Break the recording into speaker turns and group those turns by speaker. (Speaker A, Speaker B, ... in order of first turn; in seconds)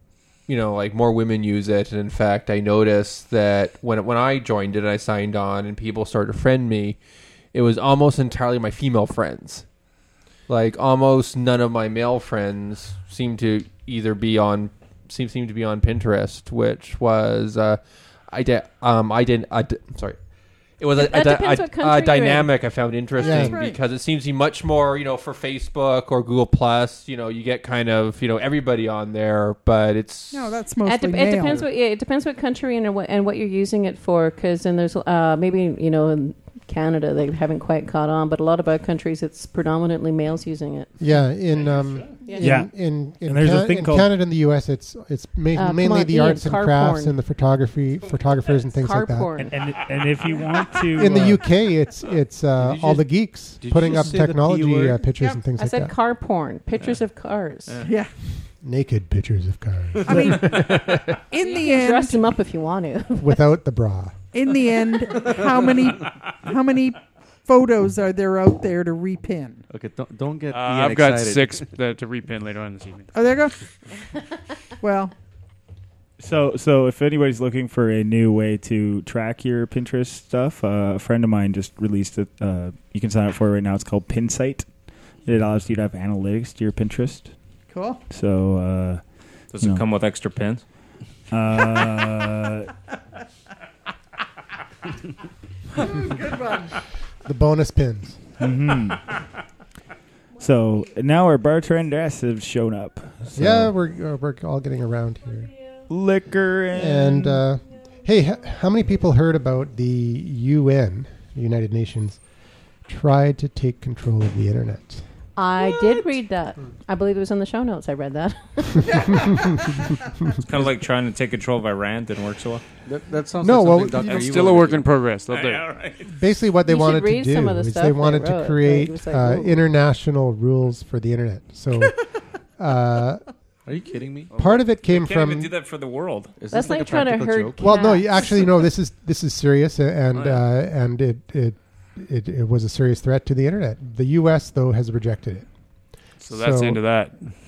Speaker A: 0.5-7.0, 7.5-9.7, 10.5-20.2, 20.8-30.5
Speaker B: 20.9-22.5, 30.9-40.9, 42.2-42.7, 45.5-47.2, 48.8-49.5, 55.6-57.8, 61.3-63.4, 115.4-119.3, 126.7-129.6, 136.5-138.4
Speaker C: 23.2-23.8, 30.3-31.6, 57.8-58.1, 60.0-62.2, 64.3-69.6, 73.1-73.6, 74.8-75.1, 87.7-88.0, 95.8-96.7, 119.2-119.6
Speaker D: 23.2-23.6, 41.0-49.3, 51.0-55.9, 58.6-60.4, 63.2-64.2, 97.2-98.2, 103.3-105.5, 106.7-112.2, 112.9-115.1, 123.4-124.2, 126.1-132.0, 132.6-133.2, 134.3-135.5, 137.6-145.5, 146.3-146.8
Speaker E: 41.6-42.1, 89.5-90.6, 120.4-122.6, 125.3-126.1, 134.3-136.3, 140.1-140.4
Speaker F: 42.4-44.1, 49.4-51.5, 76.2-84.7, 85.2-87.3, 88.1-89.0, 91.3-92.7, 98.4-99.1, 100.4-103.7, 105.9-107.4
Speaker G: 52.6-55.1, 60.0-61.2, 69.7-71.7, 122.8-124.9, 133.7-134.3, 136.4-137.6
Speaker H: 70.5-73.1, 124.1-125.7, 146.2-147.2